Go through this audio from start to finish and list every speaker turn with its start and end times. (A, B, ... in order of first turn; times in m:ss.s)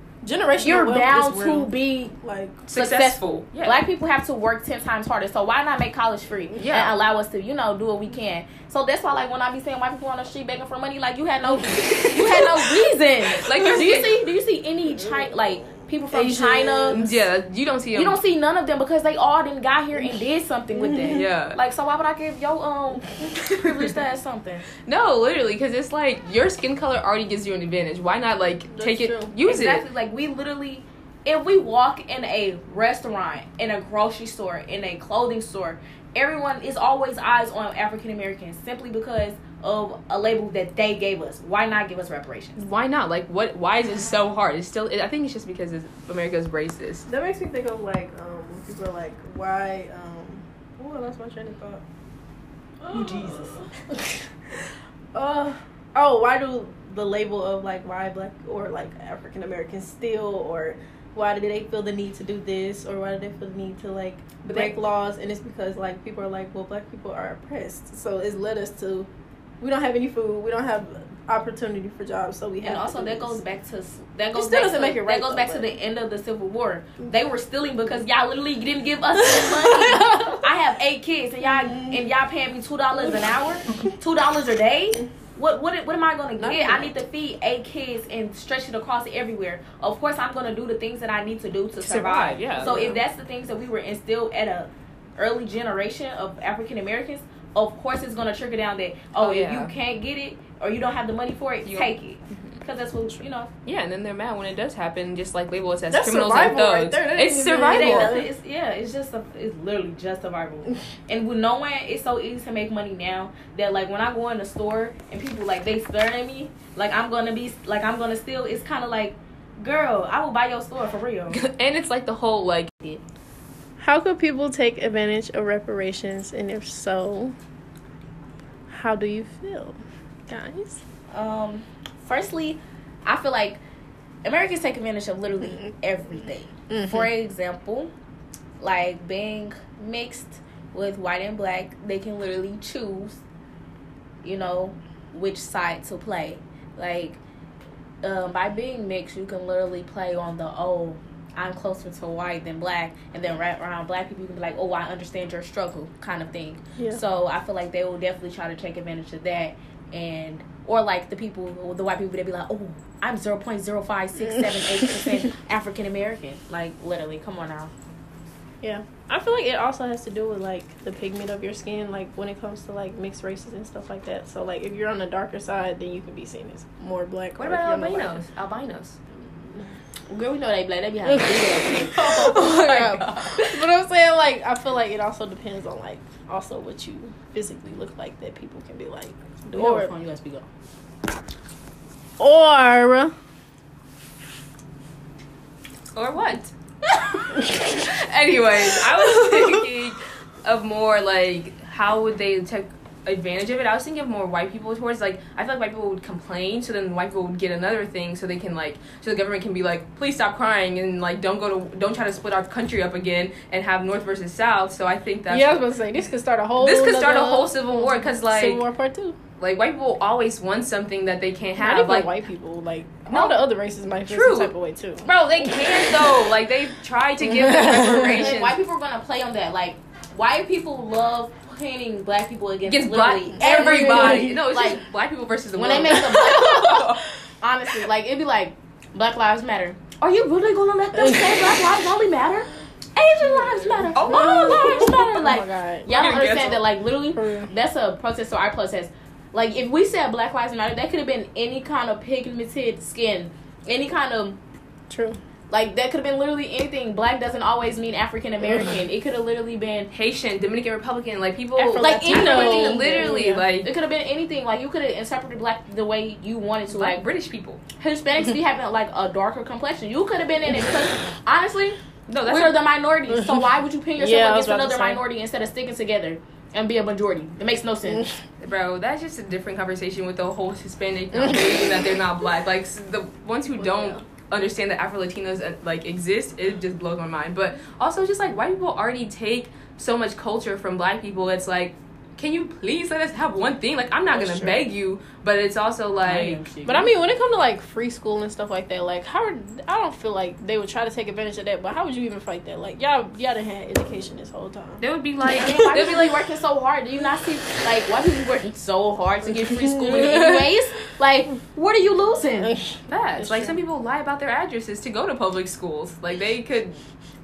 0:00.2-0:02.6 A
0:00.6-0:02.1 B
0:02.7-0:03.8 C
0:02.7-0:17.1 B
0:06.6-0:07.0 C
0:11.9-0:12.5 C
0:13.4-0:14.1 C
0:13.5-0:14.0 A
0:16.1-0:17.2 A
0:16.9-0:18.2 C
0:17.9-0:24.7 B
0:20.7-0:21.2 A
0:21.1-0:21.6 C
0:24.9-0:29.8 C
0:28.7-0:29.3 A
0:29.4-0:42.6 B
0:42.6-0:47.0 C
0:47.1-0:51.8 A
0:52.8-1:09.1 A
0:52.9-0:53.6 C
1:04.5-1:04.7 C
1:09.6-1:13.4 A
1:12.6-1:43.5 B
1:14.3-1:15.8 A
1:19.2-1:20.4 A
1:21.4-1:22.0 A
1:23.0-1:23.9 A
1:26.4-1:26.9 A
1:31.8-1:32.9 C
1:32.6-1:33.0 A
1:39.2-1:39.7 C
1:41.6-1:42.5 C
1:43.6-1:48.2 C
1:45.9-1:48.3 A
1:47.6-2:01.4 B
2:01.3-2:03.0 C
2:03.8-2:07.4 A
2:08.7-2:10.8 A
2:11.1-2:13.6 B
2:14.2-2:17.9 B
2:16.7-2:17.1 A
2:18.6-2:23.2 B
2:24.2-2:27.2 B
2:28.0-2:47.7 B
2:36.8-2:37.0 A
2:48.6-2:58.2 A
2:57.4-2:59.0 C
3:00.1-3:02.7 B
3:01.0-3:09.9 A
3:02.0-3:03.6 C
3:09.6-3:10.5 B
3:12.2-3:13.1 A
3:16.0-3:16.5 C
3:17.2-3:35.7 C
3:35.3-3:39.2 A
3:36.6-3:38.6 C
3:39.4-3:42.2 C
3:41.6-3:45.1 A
3:43.1-3:43.4 C
3:44.0-3:48.6 C
3:47.3-3:48.3 A
3:48.1-3:54.8 B
3:52.7-3:57.0 C
3:53.4-3:54.4 A
3:55.5-3:56.9 B
3:55.7-3:56.1 A
3:57.4-4:14.4 B
4:01.0-4:01.6 A
4:03.2-4:06.4 A
4:03.7-4:05.2 C
4:05.9-4:06.6 C
4:07.1-4:07.5 A
4:14.9-4:15.2 A
4:15.5-4:19.9 B
4:18.4-4:18.8 A
4:19.9-4:23.7 C
4:21.6-4:27.0 B
4:21.6-4:23.5 A
4:26.7-4:27.6 C
4:27.8-4:38.1 B
4:32.1-4:32.6 C
4:33.1-4:35.0 A
4:38.4-4:56.4 C
4:41.2-4:41.5 A
4:43.6-4:44.0 A
4:54.1-4:54.6 A
4:56.0-4:56.9 B
4:56.6-5:04.8 A
5:04.8-5:06.1 C
5:05.4-5:05.8 A
5:05.4-5:12.5 B
5:09.6-5:10.5 A
5:12.4-5:13.6 A
5:12.9-5:16.8 C